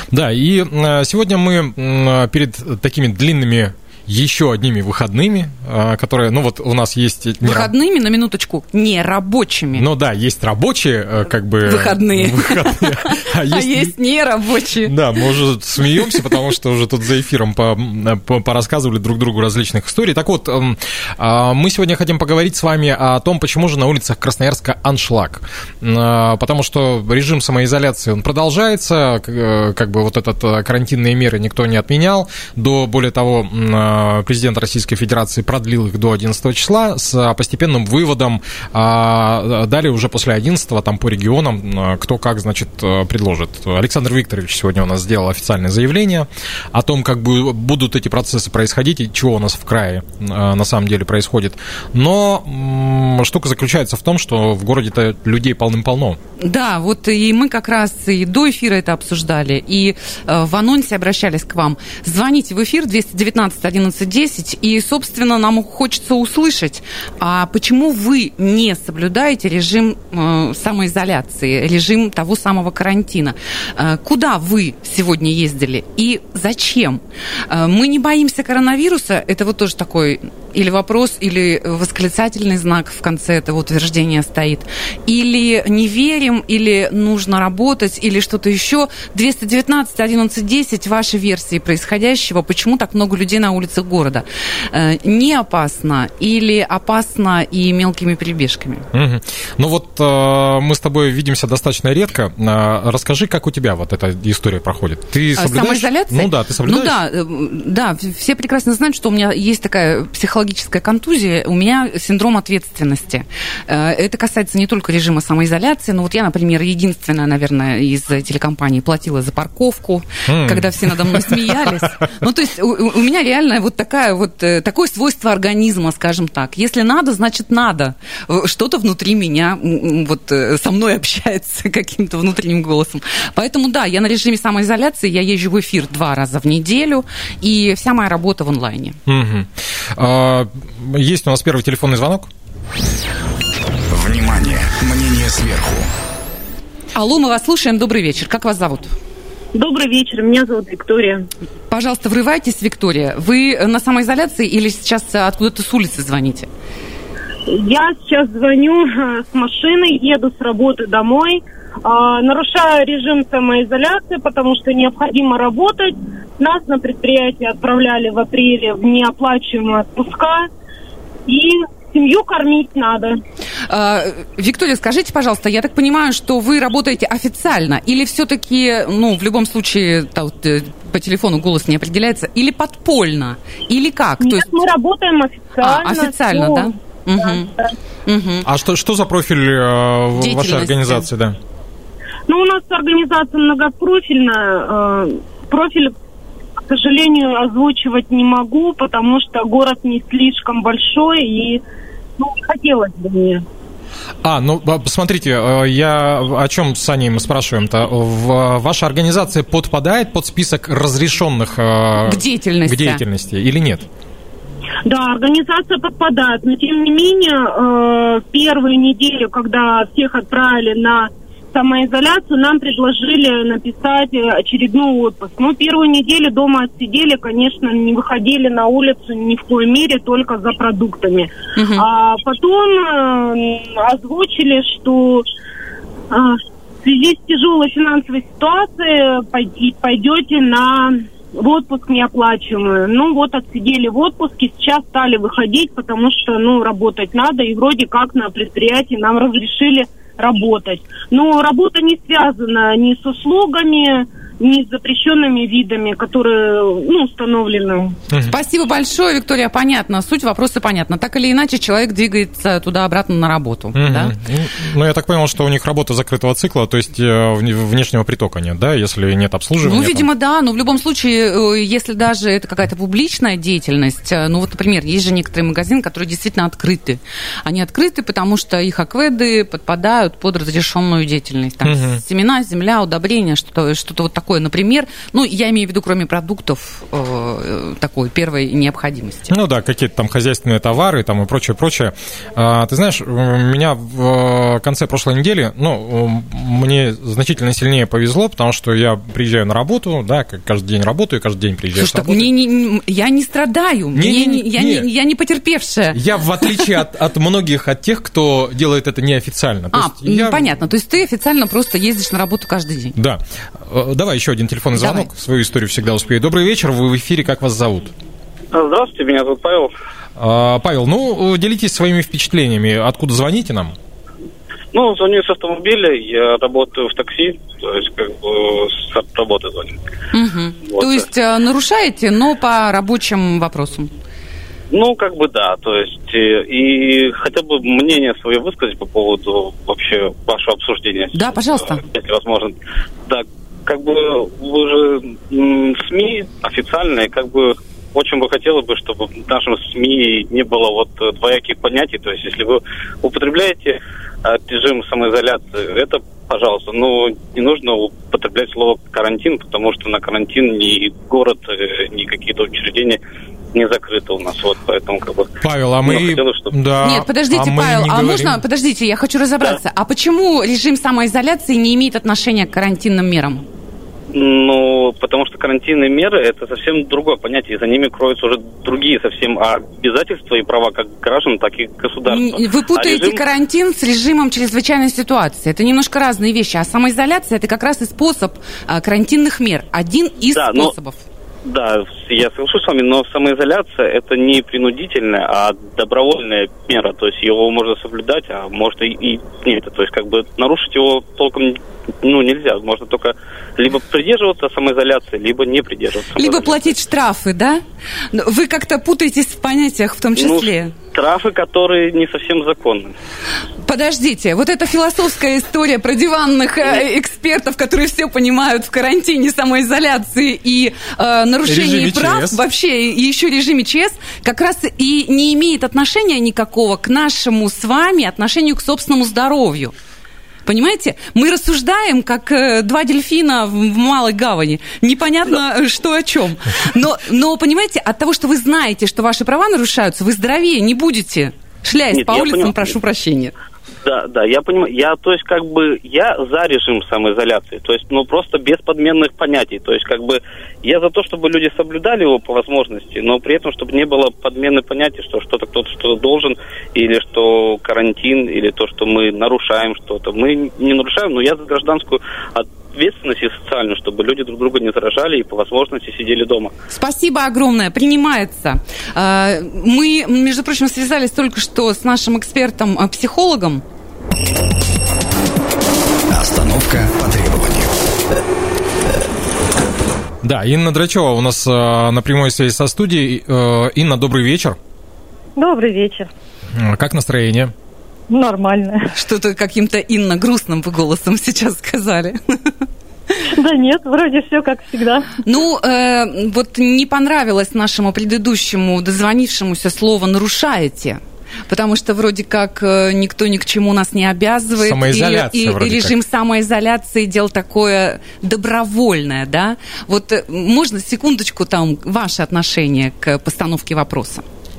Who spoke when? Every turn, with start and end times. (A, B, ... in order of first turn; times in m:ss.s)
0:00.1-0:07.7 A
0:07.4-0:09.9 B
0:09.7-0:13.9 A
0:11.6-0:14.9 B
0:14.8-0:56.2 A
0:56.4-1:38.9 B
1:38.9-1:47.0 A
1:45.4-2:19.0 B
2:00.3-2:01.7 A
2:19.1-2:22.3 A
2:23.9-2:25.9 C
2:26.9-2:28.9 B
2:29.5-2:31.3 D
2:31.7-2:36.5 B
2:37.5-2:50.5 D
2:51.3-2:53.1 D
2:53.7-3:04.5 B
3:04.2-3:07.8 D
3:05.6-3:07.5 B
3:08.0-3:08.4 B
3:08.4-3:11.4 A
3:10.2-3:11.0 B
3:12.3-3:15.9 D
3:16.6-3:21.6 D
3:22.2-3:23.4 D
3:24.2-3:33.8 A
3:32.0-3:33.0 B
3:34.8-3:55.2 D
3:51.6-3:51.8 B
3:56.1-4:18.0 D
4:18.1-4:18.4 A
4:18.2-4:24.1 B
4:23.7-4:30.1 A
4:29.6-4:49.4 B
4:41.6-4:42.0 A
4:49.3-5:02.3 A
5:01.7-5:06.7 B
5:03.9-5:04.8 A
5:05.9-5:10.4 A
5:09.7-5:13.0 B
5:13.0-5:17.9 A
5:14.7-5:15.1 B
5:18.5-5:19.7 E
5:20.2-5:23.8 A
5:24.7-5:29.8 E
5:30.1-5:33.9 B
5:30.7-5:31.0 E
5:34.7-5:42.5 E
5:41.1-5:41.8 B
5:43.0-6:03.0 E
6:03.5-6:06.5 E
6:05.4-6:08.4 A
6:06.8-6:13.4 B
6:14.1-6:23.2 E
6:22.0-6:31.0 B
6:30.3-6:30.7 E
6:31.4-6:46.8 E
6:46.1-6:50.7 B
6:50.2-6:53.0 E
6:53.6-7:09.7 B
7:01.4-7:02.4 A
7:10.4-7:23.3 B
7:21.9-7:22.7 E
7:23.8-7:46.5 E
7:46.7-7:53.6 B
7:56.1-7:57.7 C
8:00.2-8:04.6 A
8:05.4-8:06.1 F
8:06.5-8:07.5 A
8:08.1-8:08.9 F
8:08.9-8:12.5 B
8:13.3-8:15.1 F
8:15.2-8:34.2 B
8:24.6-8:25.9 A